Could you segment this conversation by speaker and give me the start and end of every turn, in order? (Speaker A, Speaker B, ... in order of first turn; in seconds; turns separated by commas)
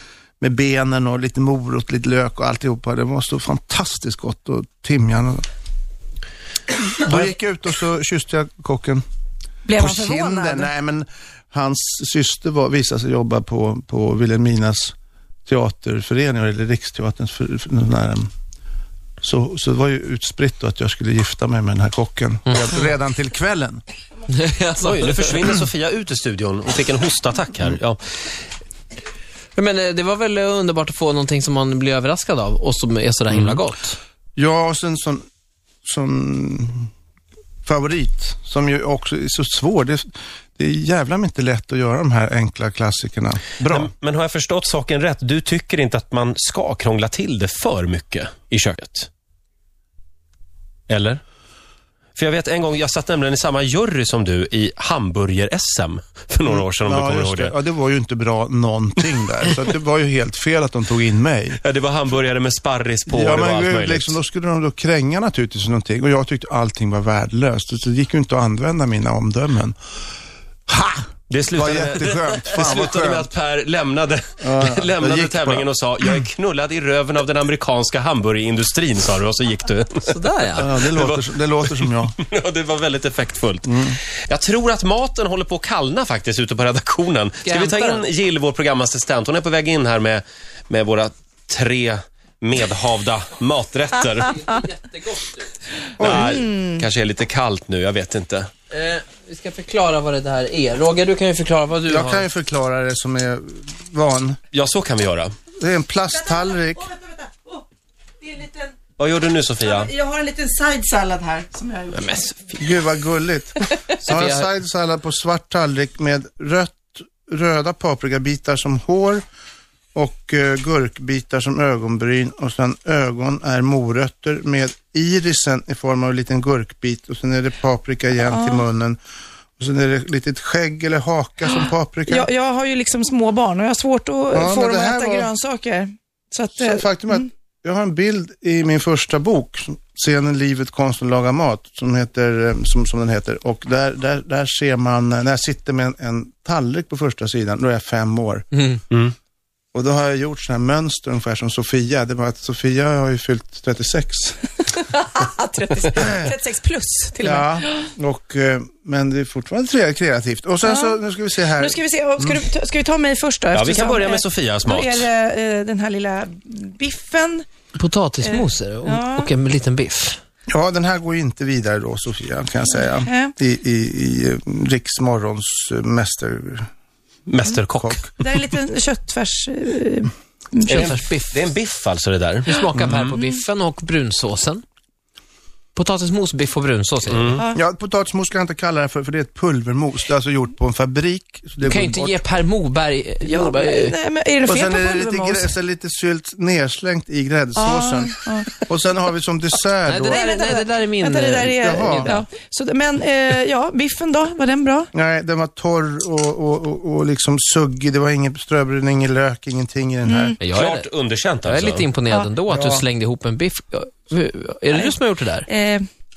Speaker A: 0.4-5.5, Speaker A: 7.0-9.0, Speaker B: 9.7-10.7, Speaker A: 9.8-14.9, Speaker A: 15.5-18.3, Speaker A: 19.2-23.8, Speaker C: 24.3-25.4, Speaker D: 24.8-28.0, Speaker C: 29.6-34.0, Speaker D: 33.3-33.6, Speaker A: 34.4-35.2, Speaker A: 35.8-36.9, Speaker A: 37.6-43.9, Speaker D: 43.6-49.1, Speaker D: 50.9-51.2, Speaker D: 52.2-57.5, Speaker A: 56.5-61.6, Speaker D: 61.6-64.2, Speaker A: 63.1-69.8, Speaker A: 70.7-73.3, Speaker D: 71.3-94.3, Speaker A: 74.4-75.7, Speaker C: 80.1-80.7, Speaker A: 80.6-82.2, Speaker A: 83.6-84.0, Speaker C: 87.4-88.1, Speaker C: 94.2-95.5, Speaker A: 96.0-96.4, Speaker D: 96.0-98.5, Speaker B: 96.1-96.8, Speaker C: 98.7-102.3, Speaker A: 101.9-104.4, Speaker D: 104.5-105.3, Speaker A: 105.6-106.9, Speaker B: 106.9-107.6, Speaker B: 108.2-108.7, Speaker D: 109.0-109.9, Speaker B: 109.6-112.2, Speaker D: 111.9-112.5, Speaker A: 112.5-119.2, Speaker C: 114.0-114.5, Speaker A: 120.0-129.0, Speaker B: 128.2-128.7, Speaker A: 129.6-132.3, Speaker B: 131.6-137.3, Speaker A: 134.3-135.3, Speaker A: 136.6-148.5, Speaker A: 149.7-154.4, Speaker B: 154.8-157.9, Speaker A: 155.9-156.3, Speaker A: 157.2-162.4, Speaker B: 160.6-161.0, Speaker B: 161.6-167.5, Speaker D: 163.5-165.1, Speaker C: 167.8-170.2, Speaker B: 168.2-169.3, Speaker A: 170.5-176.7, Speaker B: 172.7-173.3, Speaker D: 177.3-178.3, Speaker A: 177.7-178.1, Speaker B: 178.2-181.0, Speaker C: 180.7-181.5, Speaker D: 180.7-183.2, Speaker C: 182.5-184.6, Speaker C: 185.8-187.4, Speaker D: 187.1-187.4, Speaker B: 187.3-187.6, Speaker A: 187.5-192.2, Speaker C: 191.6-193.9, Speaker B: 193.2-195.5, Speaker A: 194.4-200.2, Speaker B: 197.6-198.7, Speaker C: 199.9-202.2, Speaker B: 200.1-204.9, Speaker A: 201.6-202.2, Speaker A: 204.9-210.3, Speaker B: 210.1-210.4, Speaker C: 210.4-215.5, Speaker D: 210.5-211.9, Speaker A: 212.5-212.8, Speaker B: 215.5-215.9